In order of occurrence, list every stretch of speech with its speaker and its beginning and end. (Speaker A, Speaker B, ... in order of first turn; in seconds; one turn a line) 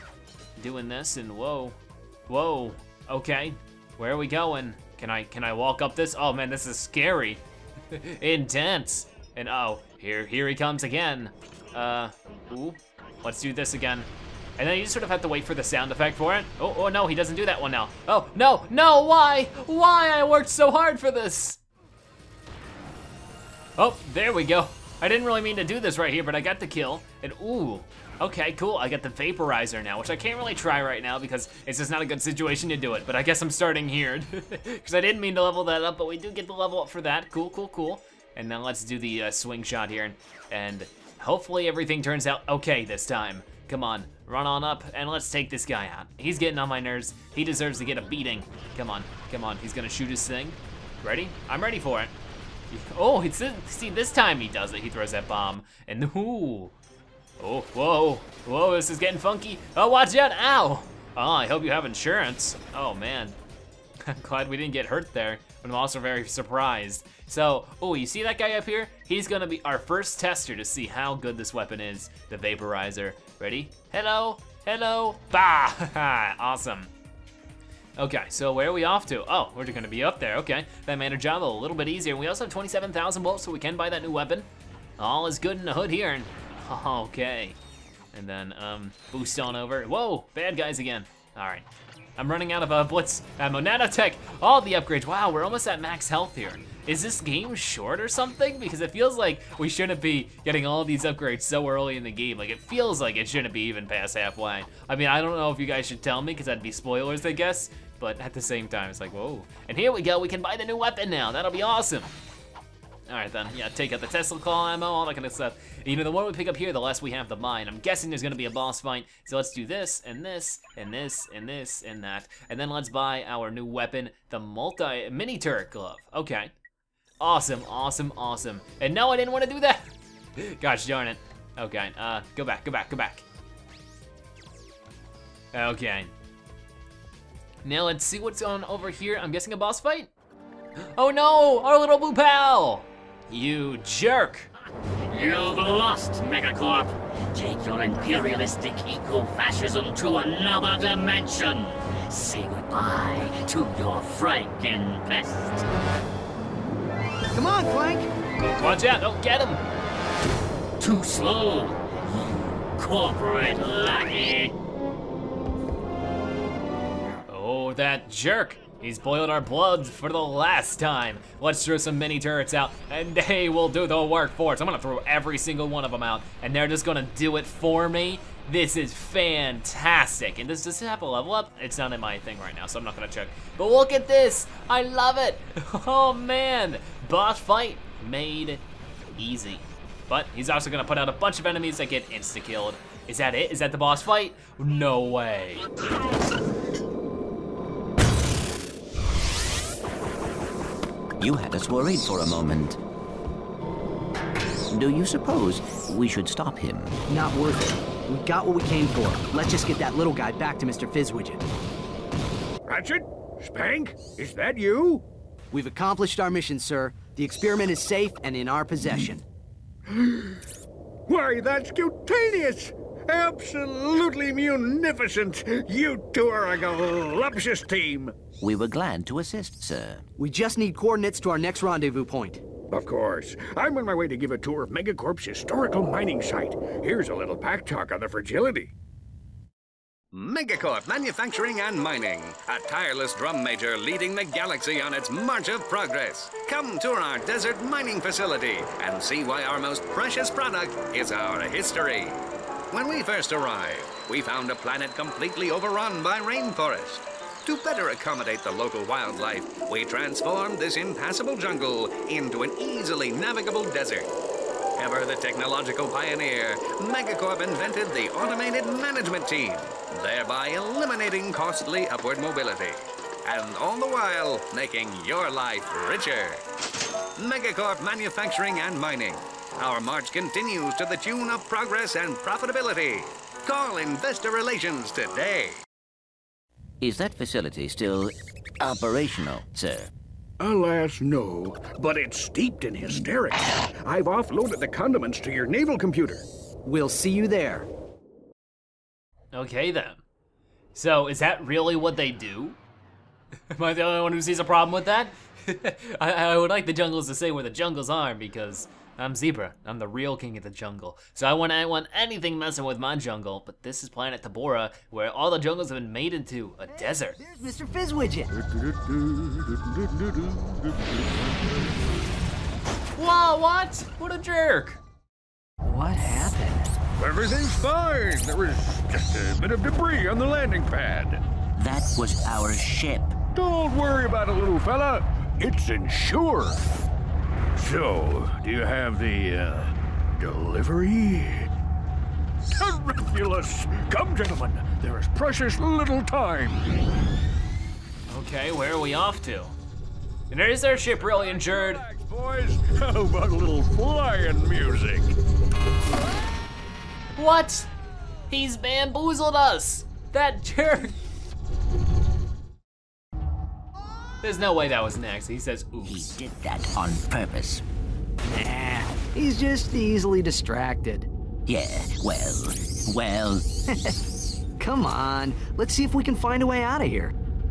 Speaker A: 0.6-1.8
Speaker A: 2.3-21.6
Speaker A: 23.8-52.1
Speaker A: 52.7-56.8
Speaker A: 57.4-63.4
Speaker A: 64.0-76.9
Speaker A: 78.0-87.6
Speaker A: 88.1-91.7
Speaker A: 92.2-112.1
Speaker A: 113.1-126.5
Speaker A: 127.2-133.2
Speaker A: 135.5-136.1
Speaker A: 137.6-140.1
Speaker A: 140.9-144.5
Speaker B: 145.1-155.7
Speaker C: 157.3-158.1
Speaker A: 158.5-159.6
Speaker B: 160.8-164.5
Speaker A: 167.3-188.6
Speaker A: 189.2-195.8
Speaker D: 201.2-202.8
Speaker D: 204.7-207.0
Speaker C: 207.1-211.4
Speaker E: 212.7-215.1
Speaker C: 215.5-219.2
Speaker E: 219.9-220.4
Speaker E: 221.1-228.2
Speaker D: 228.4-230.1
Speaker C: 230.2-232.4
Speaker E: 232.7-238.7
Speaker F: 240.1-252.2
Speaker F: 252.7-264.1
Speaker F: 264.8-276.4
Speaker F: 277.2-285.6
Speaker D: 286.8-289.9
Speaker E: 290.4-296.2
Speaker C: 296.6-297.7
Speaker A: 299.3-300.0
Speaker A: 300.7-302.6
Speaker A: 303.5-317.2
Speaker C: 316.7-318.3
Speaker E: 318.3-322.0
Speaker A: 323.0-324.8
Speaker C: 325.6-326.8
Speaker E: 327.0-331.2
Speaker D: 331.6-333.2
Speaker E: 333.3-336.6
Speaker E: 337.6-341.5
Speaker E: 342.6-346.6
Speaker A: 348.1-349.6
Speaker A: 350.3-351.8
Speaker E: 351.0-355.1
Speaker A: 357.1-357.7
Speaker A: 358.3-361.0
Speaker A: 364.2-366.2
Speaker D: 365.9-367.6
Speaker C: 368.2-371.1
Speaker D: 371.5-373.5
Speaker C: 374.6-377.1